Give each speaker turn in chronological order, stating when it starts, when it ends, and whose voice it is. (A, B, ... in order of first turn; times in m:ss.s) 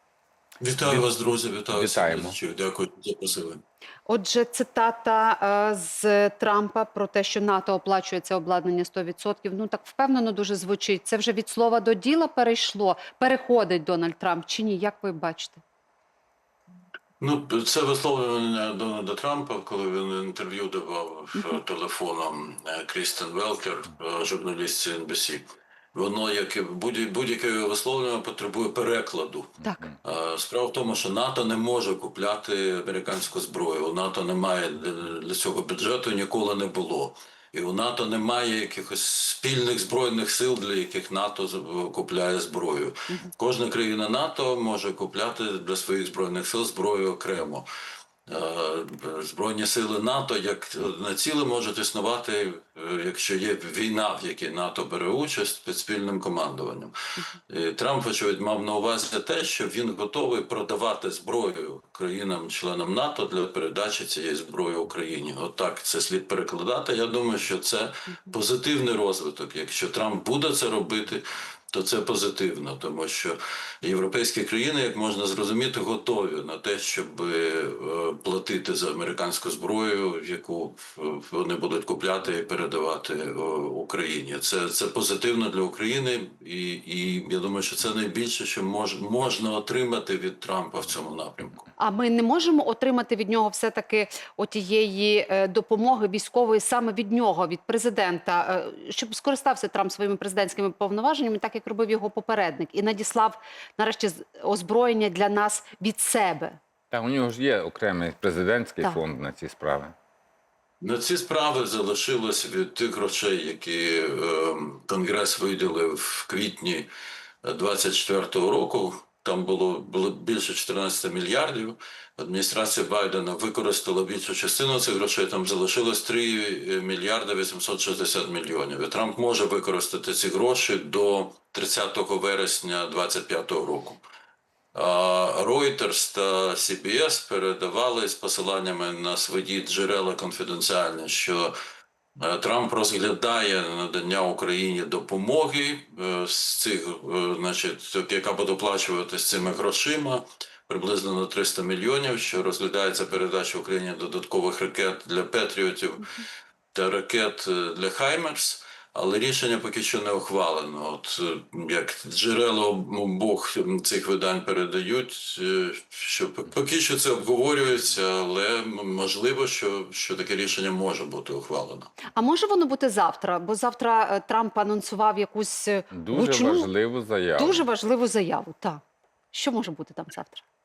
0:00.6-0:03.6 A
0:01.7-0:02.4 B
0:04.1-0:15.6 C
0:17.2-0:25.4 A
0:21.3-0:21.6 C
0:25.9-0:47.6 A
0:29.6-0:29.9 C
0:48.3-0:56.9 A
0:57.5-1:31.7 A
1:31.8-1:46.6 C
1:46.9-1:49.9 B
1:50.8-1:56.9 A
1:57.4-2:14.0 A
2:14.7-2:21.5 A
2:22.2-2:36.1 A
2:36.7-2:51.9 A
2:52.1-2:56.7 C
2:55.9-2:57.6 B
2:57.4-3:00.4 C